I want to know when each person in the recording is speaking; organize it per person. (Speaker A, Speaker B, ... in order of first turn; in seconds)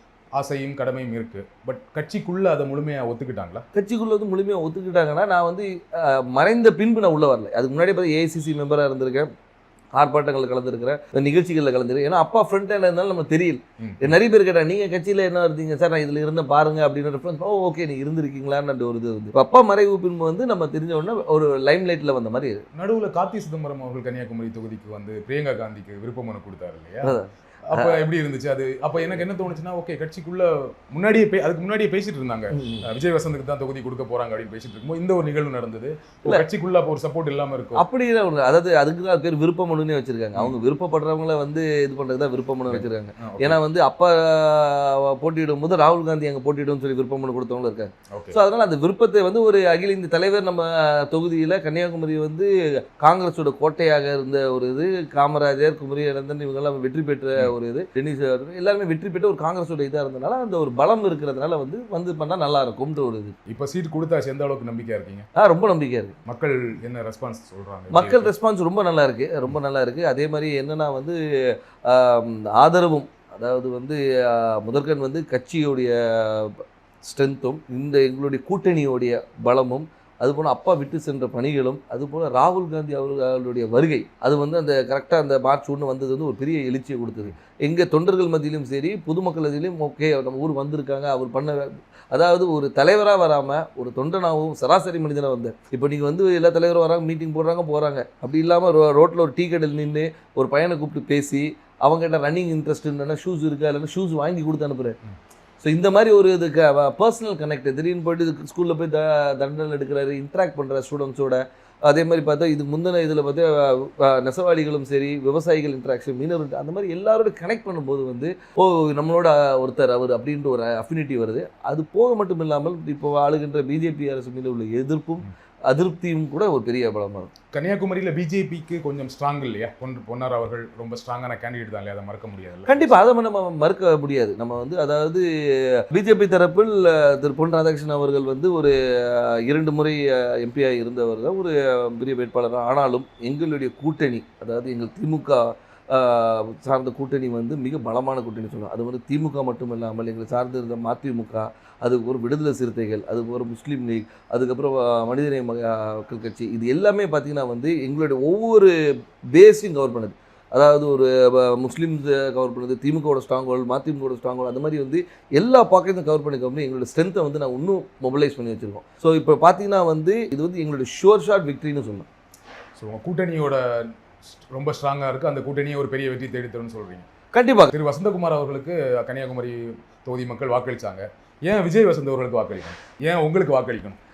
Speaker A: 0.4-3.6, 13.8-14.2, 22.7-37.8, 42.7-43.6, 48.1-48.4, 63.5-65.3, 66.2-68.3, 127.5-132.9, 172.8-173.6, 174.2-177.0, 177.7-184.0
Speaker B: 3.7-9.3, 9.9-22.6, 27.0-28.0, 32.6-32.9, 37.7-63.3, 65.3-66.2, 67.9-105.0, 105.6-127.3, 132.7-158.7, 159.3-172.1, 177.3-177.7